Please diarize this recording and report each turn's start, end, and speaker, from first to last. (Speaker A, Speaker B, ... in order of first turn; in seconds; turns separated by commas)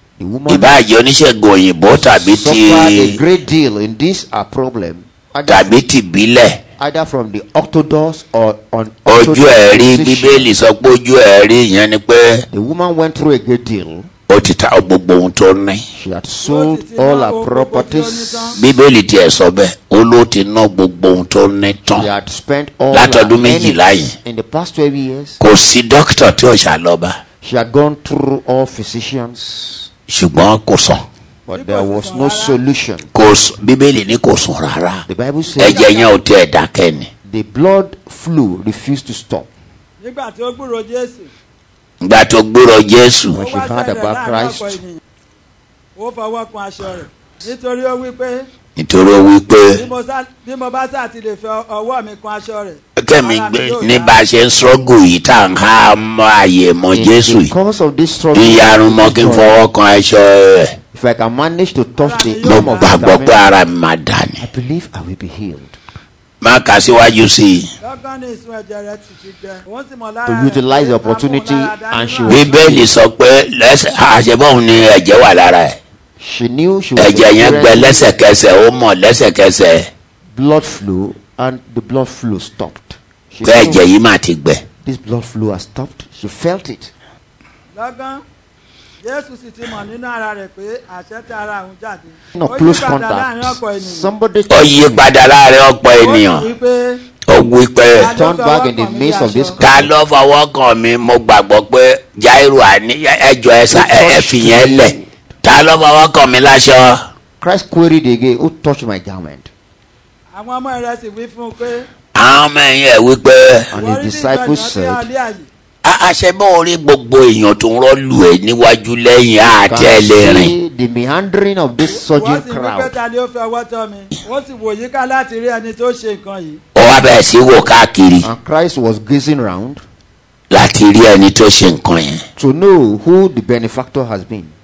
Speaker A: 0.2-0.8, Speaker B: 0.5-3.2, Speaker A: 1.9-5.7, Speaker B: 5.5-6.6, Speaker A: 6.8-10.5, Speaker B: 9.1-12.4, Speaker A: 12.5-14.1, Speaker B: 14.3-15.8, Speaker A: 15.9-18.6, Speaker C: 16.4-18.6, Speaker B: 18.6-22.1, Speaker A: 21.9-25.4, Speaker B: 22.9-24.1, Speaker B: 25.4-27.2, Speaker A: 27.4-29.9, Speaker B: 30.1-31.0, Speaker A: 31.4-33.1, Speaker C: 31.5-32.6, Speaker B: 33.1-35.0, Speaker A: 35.0-35.8, Speaker C: 35.4-36.1, Speaker B: 35.6-37.1, Speaker A: 37.2-39.5, Speaker C: 40.0-41.3, Speaker B: 42.0-43.4, Speaker A: 43.3-44.8, Speaker C: 43.3-45.0, Speaker C: 46.0-48.5, Speaker B: 48.8-49.9, Speaker C: 49.7-54.2, Speaker B: 53.0-57.5, Speaker A: 56.9-59.6, Speaker B: 58.3-60.7, Speaker A: 60.9-63.5, Speaker C: 62.0-63.0, Speaker B: 62.4-64.4, Speaker A: 64.4-65.8, Speaker B: 66.4-67.7, Speaker C: 67.8-72.7, Speaker A: 70.2-72.9, Speaker B: 72.3-75.8, Speaker A: 76.2-78.1, Speaker B: 77.0-79.9, Speaker A: 80.3-83.9, Speaker B: 83.4-84.6, Speaker A: 84.8-86.9, Speaker C: 87.7-88.2, Speaker C: 89.0-94.1, Speaker A: 92.3-95.1, Speaker B: 94.5-96.5, Speaker C: 96.0-97.0, Speaker B: 97.3-98.1, Speaker C: 98.0-99.6, Speaker A: 98.1-99.9, Speaker B: 99.6-107.0, Speaker A: 103.7-105.2, Speaker A: 107.4-109.5, Speaker C: 110.3-111.9, Speaker B: 112.1-113.7, Speaker A: 113.7-115.1, Speaker C: 113.7-115.5, Speaker B: 115.8-120.5, Speaker A: 119.4-123.0, Speaker C: 121.8-126.6, Speaker B: 126.7-128.3, Speaker A: 128.2-129.8, Speaker B: 130.5-132.2, Speaker A: 132.4-134.5